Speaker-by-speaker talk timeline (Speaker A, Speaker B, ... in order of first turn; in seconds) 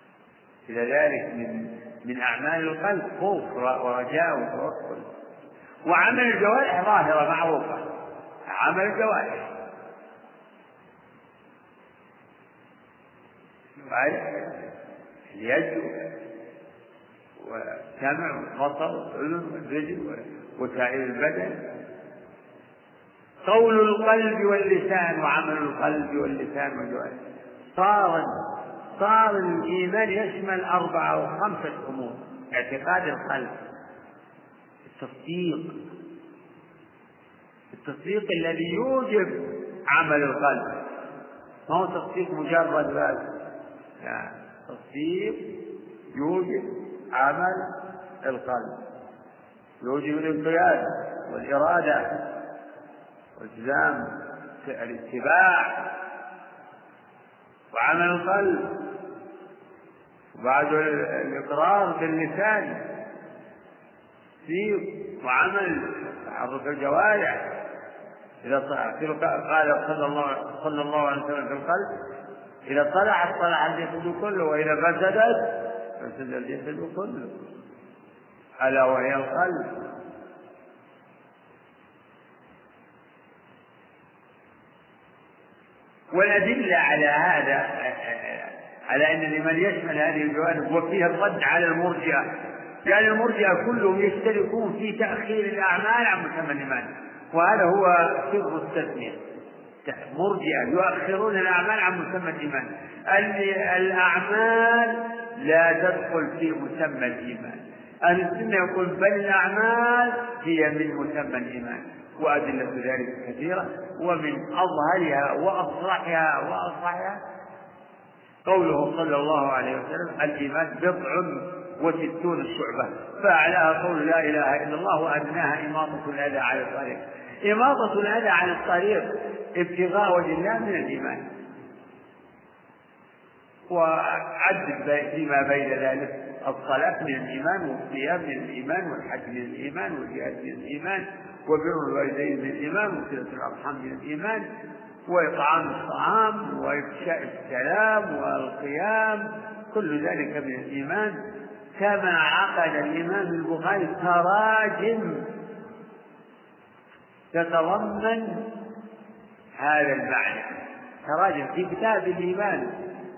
Speaker A: 0.7-5.1, 5.8-7.9, 8.5-9.5, 13.8-14.7, 15.3-15.9, 17.4-21.6, 23.4-27.2, 27.7-28.3, 29.0-33.5, 34.9-35.7, 37.7-40.8, 41.7-43.3, 44.0-45.6, 46.1-47.7, 48.2-48.8, 49.8-52.3, 53.4-55.9, 57.7-58.8, 60.4-62.8, 64.4-67.5, 68.4-71.9, 72.7-77.3, 78.6-79.8, 86.1-99.2, 99.8-117.2, 118.4-131.2, 133.7-144.5, 145.1-151.2, 151.8-155.3, 157.3-158.5, 159.6-162.8